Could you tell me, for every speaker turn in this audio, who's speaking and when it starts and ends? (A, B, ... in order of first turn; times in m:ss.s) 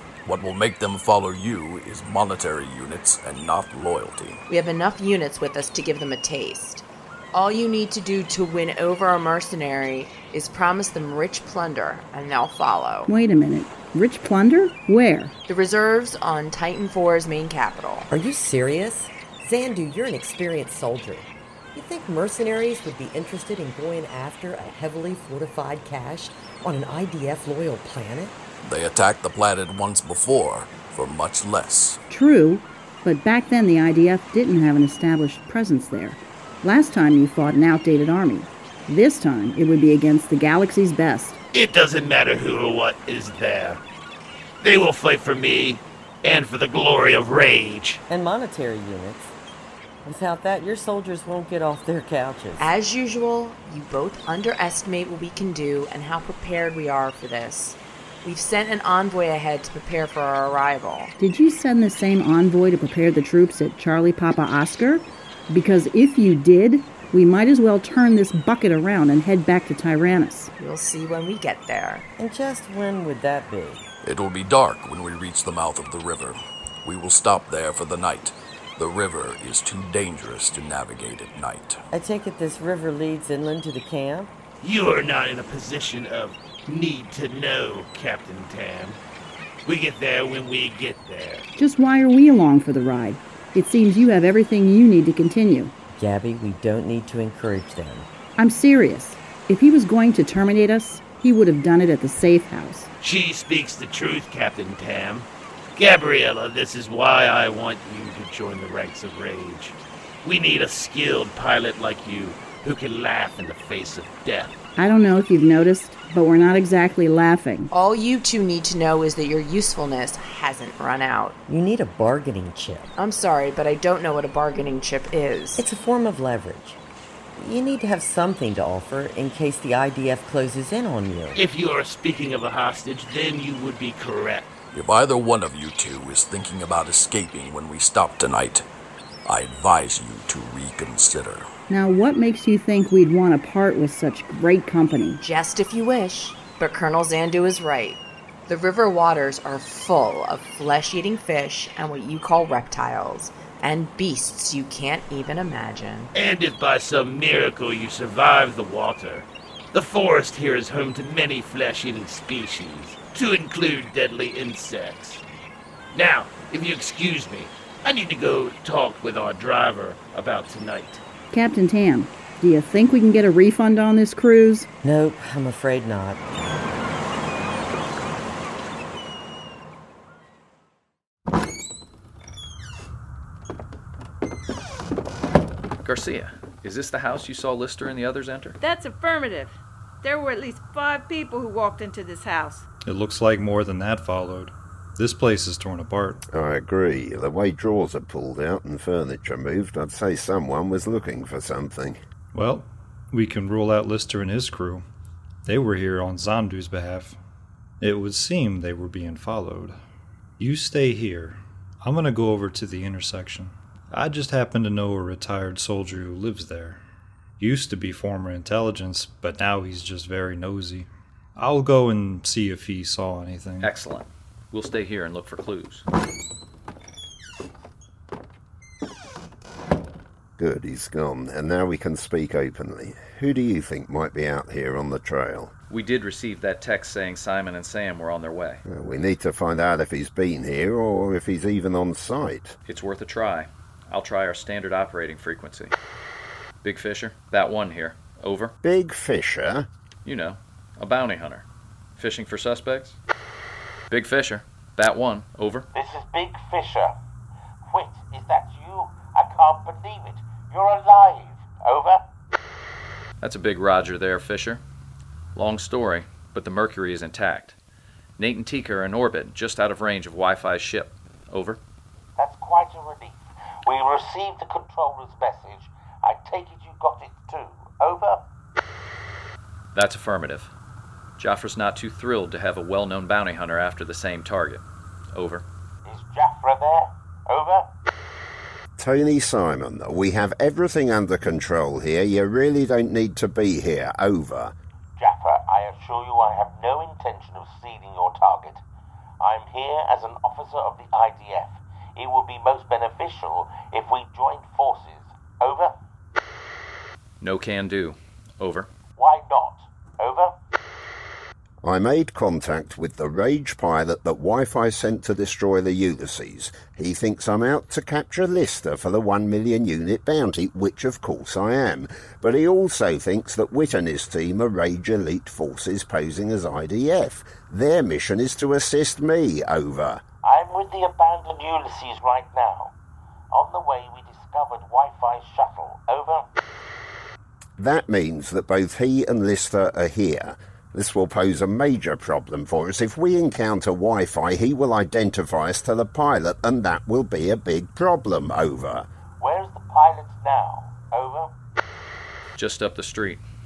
0:00.2-0:04.4 A
0:04.5-0:13.1 B
0:13.1-0:15.3 C
0:15.5-0:18.1 B
0:18.1-0:28.3 D
0:28.6-0:32.0 A
0:32.1-0:41.4 C
0:41.5-0:43.8 E
0:44.6-0:48.0 E
0:48.1-0:49.3 D
0:50.0-0:52.6 D
0:52.6-1:01.1 B
1:01.2-1:10.5 C
1:10.6-1:12.0 B
1:12.2-1:13.9 D
1:14.0-1:21.8 A
1:21.9-1:24.3 D
1:24.6-1:29.0 E
1:29.6-1:31.5 E
1:31.6-1:35.7 C
1:35.9-1:38.1 D
1:38.4-1:42.9 C
1:43.0-1:54.6 E
1:54.8-1:57.7 C
1:57.7-2:01.4 B
2:01.5-2:02.9 D
2:03.0-2:05.6 B
2:05.6-2:06.8 D
2:07.4-2:11.4 D
2:11.4-2:14.5 E
2:14.7-2:18.6 A
2:19.2-2:21.5 A
2:21.7-2:25.2 C
2:25.2-2:36.1 B
2:36.1-2:45.2 E
2:45.9-2:51.0 E
2:51.3-2:54.7 C
2:54.8-2:56.2 D
3:05.8-3:08.6 F
3:08.6-3:12.6 G
3:12.8-3:16.2 H
3:16.3-3:22.0 I
3:22.3-3:24.8 H
3:25.4-3:27.2 H
3:27.8-3:29.8 H
3:30.4-3:36.8 H
3:37.4-3:43.7 H
3:43.6-3:45.8 F
3:50.4-3:55.5 I
3:55.7-3:58.6 F
3:58.6-4:02.6 I
4:02.6-4:05.7 F
4:06.6-4:08.5 F
4:08.6-4:09.7 I
4:10.0-4:11.4 F
4:12.0-4:13.0 F
4:13.9-4:15.7 F
4:15.7-4:16.9 J
4:17.7-4:22.0 J
4:23.2-4:24.6 F
4:25.3-4:27.6 F
4:28.2-4:31.6 F
4:32.2-4:38.3 J
4:39.7-4:40.5 F
4:41.2-4:45.4 F
4:45.8-4:47.7 J
4:48.8-4:54.5 I
4:55.0-4:58.6 J
4:59.2-5:05.7 J
5:07.2-5:08.7 F
5:09.0-5:10.3 J
5:11.6-5:30.0 I
5:30.2-5:32.7 J
5:33.3-5:36.2 J
5:37.6-5:48.9 I
5:49.2-5:51.3 J
5:52.4-5:53.2 F